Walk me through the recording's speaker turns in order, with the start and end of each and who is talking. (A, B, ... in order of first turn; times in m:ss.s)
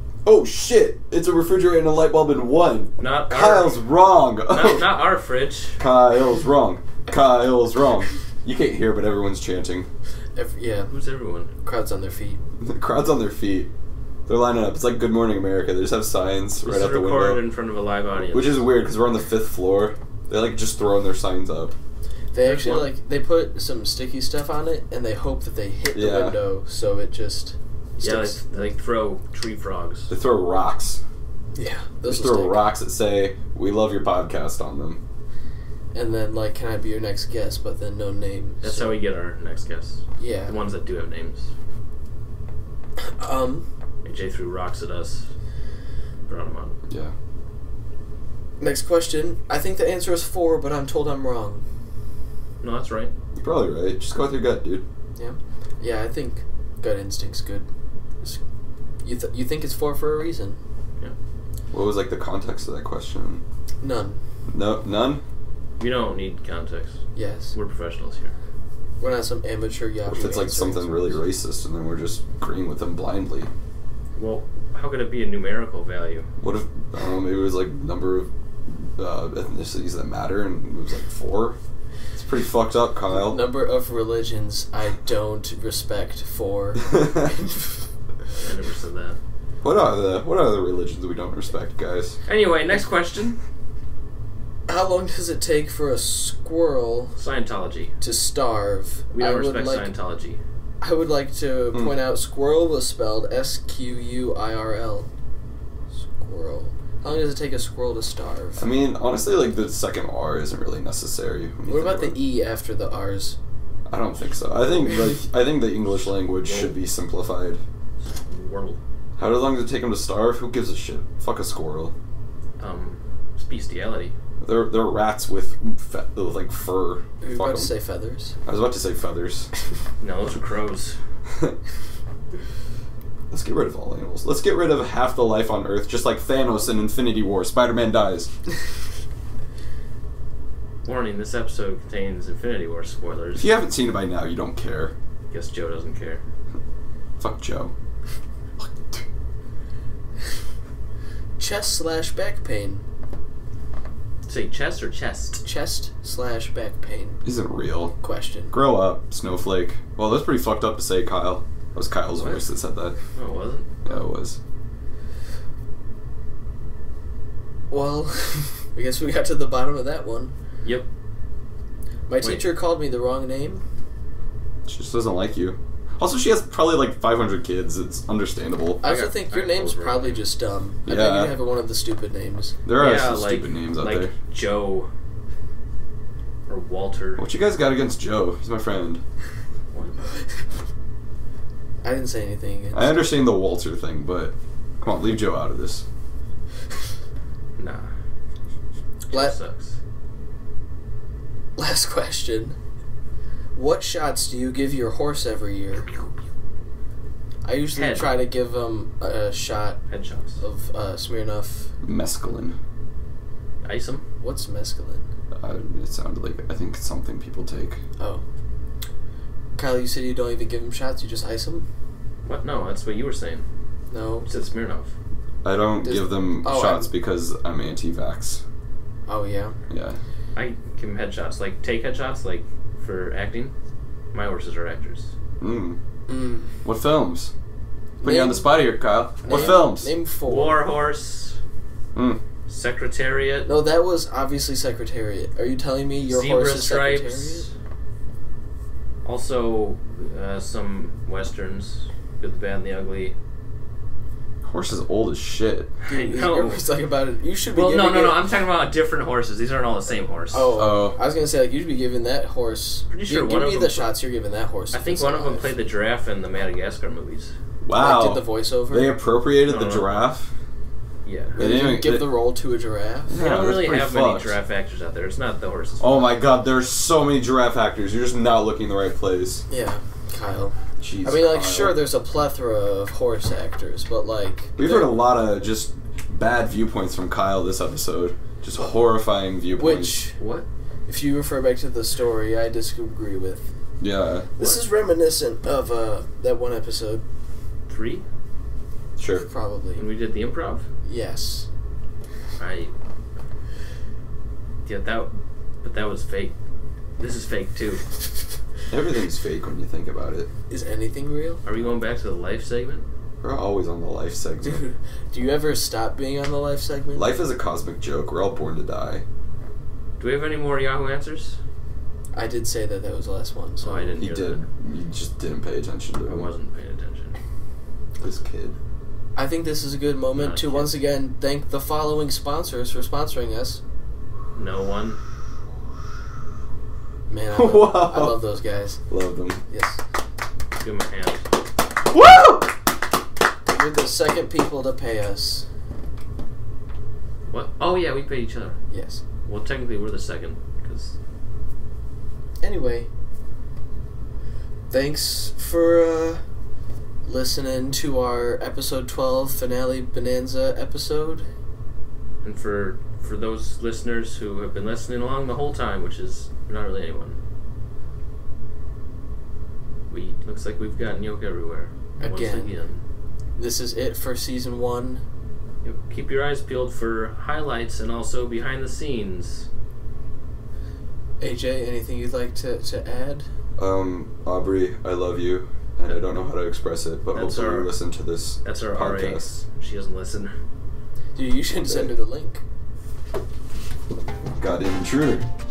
0:00.2-0:04.9 A
0:03.0-0:03.8 B
0:04.5-0:05.8 B
0:05.8-0:09.9 A
0:10.4-0:10.9 C
0:10.9-0:11.5 B
0:11.6-0:12.4 C
0:12.6-0:13.7 A
0:14.3-0:17.4 A
0:16.6-0:18.6 B
0:18.3-0:21.8 A
0:22.3-0:28.4 C
0:22.4-0:22.9 B
0:25.9-0:26.4 A
0:28.0-0:30.1 B
0:30.1-0:31.0 A
0:31.6-0:32.7 C
0:32.1-0:35.0 A
0:35.9-0:39.0 C
0:38.6-0:41.5 B
0:40.2-0:40.6 C
0:43.0-0:43.7 C
0:44.0-0:45.3 B
0:46.2-0:46.8 B
0:46.9-0:47.1 A
0:48.6-0:51.6 C
0:52.6-0:53.1 B
0:53.4-0:54.8 A
0:55.2-0:57.7 C
0:59.0-1:00.6 C
1:01.7-1:03.4 A
1:03.8-1:04.2 C
1:04.5-1:05.2 A
1:05.8-1:07.0 B
1:07.2-1:07.5 C
1:07.5-1:08.4 B
1:09.0-1:11.3 C
1:10.1-1:13.5 A
1:14.2-1:16.3 B
1:16.4-1:21.6 A
1:22.2-1:23.4 A
1:23.2-1:27.9 C
1:28.4-1:29.2 B
1:29.6-1:32.2 A
1:32.3-1:33.4 B
1:34.7-1:37.2 C
1:37.2-1:37.9 B
1:38.0-1:39.9 C
1:39.1-1:40.4 B
1:40.8-1:45.1 C
1:41.7-1:42.0 A
1:46.0-1:48.7 C
1:48.6-1:52.2 A
1:51.7-1:53.4 C
1:53.9-1:57.6 A
1:56.4-1:56.7 B
1:58.0-1:58.8 B
1:59.2-2:01.9 A
2:02.6-2:04.2 B
2:04.4-2:07.7 A
2:07.2-2:08.4 C
2:08.4-2:09.5 A
2:10.0-2:11.0 B
2:11.3-2:11.6 A
2:13.3-2:18.3 A
2:20.8-2:23.5 B
2:23.4-2:24.9 A
2:25.3-2:26.2 B
2:27.2-2:27.7 A
2:28.6-2:29.0 A
2:31.4-2:32.8 C
2:34.3-2:35.4 B
2:35.4-2:37.2 C
2:37.2-2:38.0 A
2:38.0-2:38.6 C
2:38.5-2:43.0 A
2:43.2-2:43.8 B
2:43.8-2:44.4 A
2:47.7-2:50.3 C
2:52.1-2:53.6 C
2:52.2-2:52.5 B
2:54.7-2:58.8 A
2:58.8-3:02.6 C
2:58.8-3:00.2 B
3:00.9-3:01.4 A
3:02.7-3:04.1 A
3:02.8-3:04.9 B
3:06.5-3:07.2 B
3:07.2-3:09.0 A
3:09.7-3:10.0 B
3:11.8-3:13.0 C
3:12.7-3:15.8 A
3:17.6-3:17.9 B
3:19.1-3:19.8 B
3:21.6-3:22.6 C
3:23.6-3:25.9 C
3:27.4-3:29.8 C
3:27.7-3:28.1 B
3:29.9-3:30.4 B
3:30.4-3:31.7 C
3:31.8-3:32.6 A
3:33.6-3:34.0 B
3:34.2-3:35.1 C
3:35.4-3:37.8 A
3:38.0-3:38.2 C
3:39.6-3:41.7 C
3:42.2-3:43.5 B
3:43.9-3:44.3 C
3:44.3-3:44.9 B
3:45.4-3:48.4 A
3:45.8-3:46.9 C
3:49.1-3:49.6 C
3:49.7-3:50.0 A
3:50.4-3:53.5 B
3:54.1-3:55.1 B
3:55.4-3:55.8 A
3:56.1-3:56.6 C
3:56.6-3:57.3 A
3:58.0-3:58.6 C
3:58.0-3:59.9 A
3:59.2-4:00.6 C
3:59.3-3:59.6 B
4:00.2-4:01.4 B
4:02.0-4:02.2 A
4:02.5-4:03.5 B
4:03.5-4:07.5 C
4:06.1-4:07.5 B
4:09.0-4:13.2 B
4:14.4-4:15.7 A
4:15.9-4:16.6 B
4:15.9-4:18.2 C
4:17.5-4:20.5 B
4:20.3-4:25.5 C
4:20.5-4:21.0 A
4:22.9-4:23.9 B
4:24.7-4:27.3 B
4:27.6-4:30.3 A
4:27.8-4:29.0 C
4:29.5-4:30.0 B
4:31.0-4:31.4 B
4:31.4-4:32.1 A
4:31.4-4:33.1 C
4:33.1-4:34.4 A
4:33.2-4:36.1 B
4:35.8-4:39.4 A
4:39.5-4:44.9 C
4:40.8-4:41.8 A
4:44.6-4:50.1 A
4:49.6-4:50.2 C
4:50.2-4:50.5 B
4:50.9-4:53.5 C
4:53.8-4:54.3 A
4:54.4-4:57.0 C
4:57.7-4:58.0 B
4:59.0-4:59.3 A
4:59.1-4:59.9 C
4:59.8-5:00.7 B
5:00.8-5:01.5 C
5:02.4-5:02.7 B
5:04.6-5:06.3 B
5:07.0-5:07.8 B
5:08.7-5:10.3 A
5:10.5-5:11.4 C
5:11.4-5:12.9 B
5:13.2-5:14.7 A
5:14.4-5:17.1 C
5:17.0-5:19.0 A
5:20.0-5:21.4 B
5:22.1-5:24.0 C
5:23.6-5:24.5 B
5:24.0-5:26.3 A
5:26.1-5:27.2 B
5:28.0-5:28.6 A
5:29.2-5:33.6 C
5:30.1-5:30.8 B
5:34.4-5:35.0 B
5:37.1-5:38.8 C
5:37.3-5:38.2 A
5:38.9-5:39.4 A
5:39.5-5:39.8 C
5:40.6-5:41.3 B
5:41.9-5:42.5 A
5:43.5-5:45.5 C
5:47.3-5:48.6 B
5:48.7-5:49.0 C
5:49.3-5:51.0 B
5:52.4-5:52.9 C
5:54.7-5:56.2 C
5:57.0-6:01.3 C
6:02.2-6:07.2 B
6:09.9-6:12.8 B
6:12.0-6:12.5 C
6:13.4-6:15.0 C
6:15.6-6:19.5 B
6:21.2-6:23.3 C
6:23.6-6:29.3 A
6:27.1-6:27.7 B
6:28.4-6:30.4 B
6:31.2-6:32.4 C
6:31.6-6:31.9 A
6:34.4-6:35.3 A